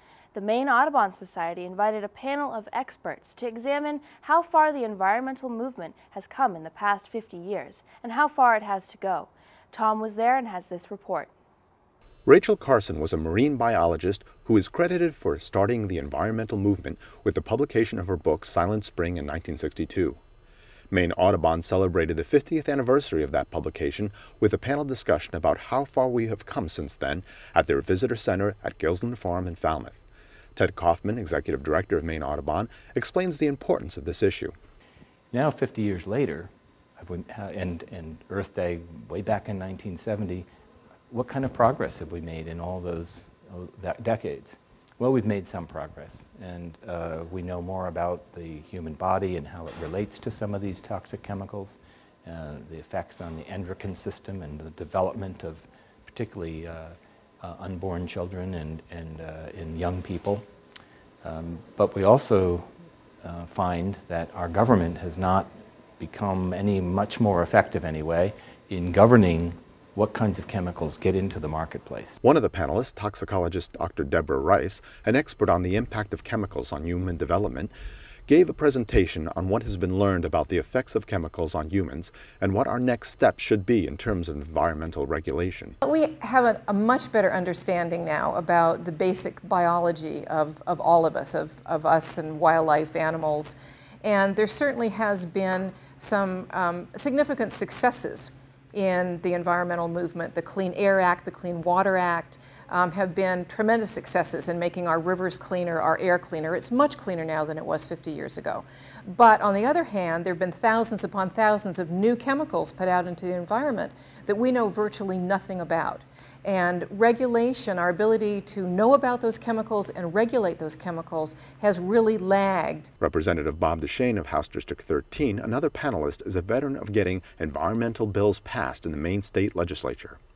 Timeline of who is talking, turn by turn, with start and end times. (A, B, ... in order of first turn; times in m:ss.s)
0:00.3-0:11.3 A
0:12.3-0:20.2 B
0:20.9-0:30.0 B
0:30.6-0:34.5 B
0:35.3-0:40.5 C
0:41.1-1:00.5 C
1:01.2-1:02.7 C
1:03.2-1:12.2 C
1:12.2-1:17.7 B
1:18.3-1:25.8 B
1:25.8-2:02.9 D
2:03.0-2:10.2 B